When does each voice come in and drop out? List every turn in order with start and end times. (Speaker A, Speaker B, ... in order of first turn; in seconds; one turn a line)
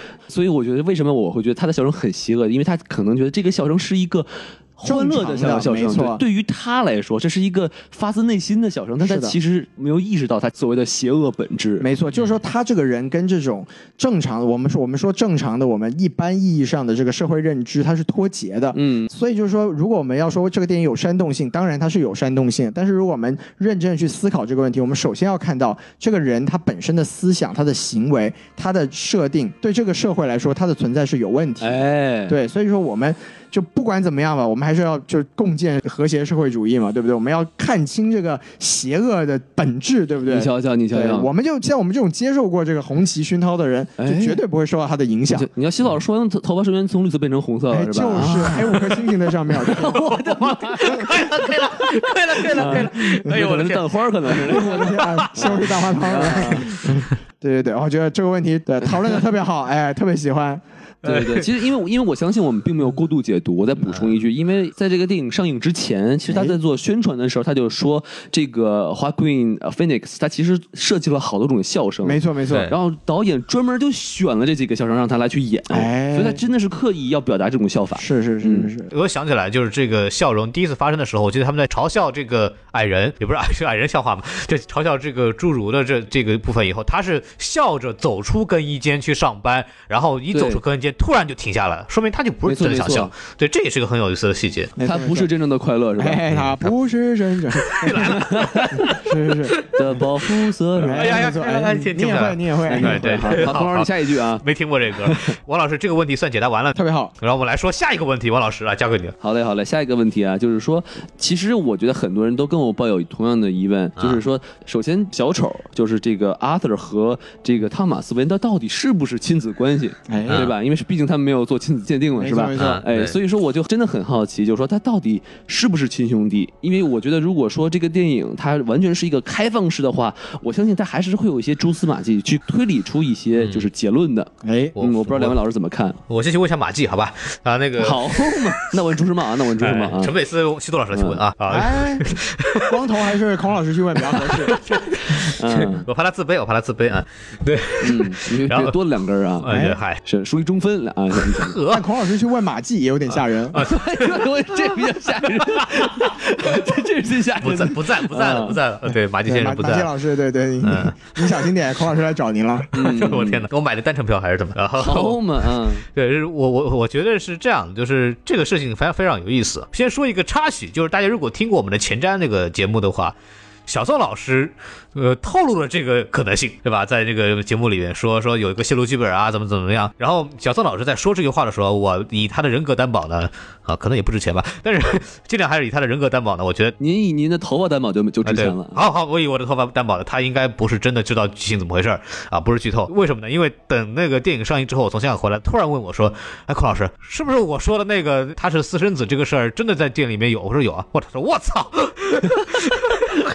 Speaker A: 0.3-11.9
Speaker B: 4.8-6.2
Speaker B: 9.0-9.4
Speaker B: 11.8-45.5
Speaker A: 18.7-19.1
Speaker A: 31.6-32.4
Speaker A: 40.3-41.3
Speaker A: 44.0-44.4
Speaker A: 45.3-48.8
Speaker B: 47.7-50.0
Speaker A: 49.5-51.3
Speaker C: 49.9-55.6
Speaker A: 52.5-56.7
Speaker B: 54.5-60.6
Speaker C: 61.0-61.5
Speaker A: 61.0-78.7
Speaker B: 66.3-66.6
Speaker B: 72.0-72.7
Speaker B: 75.7-76.4
Speaker B: 78.0-78.9
Speaker C: 78.9-94.7
Speaker A: 90.3-90.6
Speaker A: 92.4-93.1
Speaker B: 94.8-95.3
Speaker A: 94.8-96.2
Speaker B: 96.0-98.1
Speaker C: 96.3-96.7
Speaker C: 97.7-99.0
Speaker A: 97.9-98.8
Speaker B: 98.8-99.6
Speaker A: 99.7-101.2
Speaker B: 100.8-103.5
Speaker C: 100.8-109.2
Speaker A: 102.7-104.4
Speaker A: 105.0-105.3
Speaker B: 106.7-107.1
Speaker A: 109.2-136.0
Speaker B: 120.1-120.5
Speaker C: 120.3-120.5
Speaker B: 122.2-122.8
Speaker C: 122.5-123.1
Speaker C: 133.4-133.7
Speaker B: 134.4-134.8
Speaker C: 134.8-135.3
Speaker C: 136.1-138.4
Speaker A: 137.8-140.1
Speaker C: 139.6-142.8
Speaker A: 140.9-141.2
Speaker B: 141.5-144.6
Speaker C: 144.2-148.7
Speaker A: 145.3-145.8
Speaker A: 147.8-149.5
Speaker C: 149.4-150.0
Speaker B: 149.5-149.8
Speaker A: 150.0-151.6
Speaker C: 151.3-151.9
Speaker B: 151.7-153.6
Speaker C: 153.5-154.3
Speaker A: 153.5-158.6
Speaker C: 155.5-156.5
Speaker C: 157.4-159.9
Speaker B: 159.2-162.9
Speaker C: 160.6-161.4
Speaker A: 162.7-163.4
Speaker C: 162.8-165.2
Speaker A: 164.8-165.8
Speaker C: 165.8-173.1
Speaker C: 173.7-186.8
Speaker A: 186.8-188.8
Speaker C: 188.2-203.2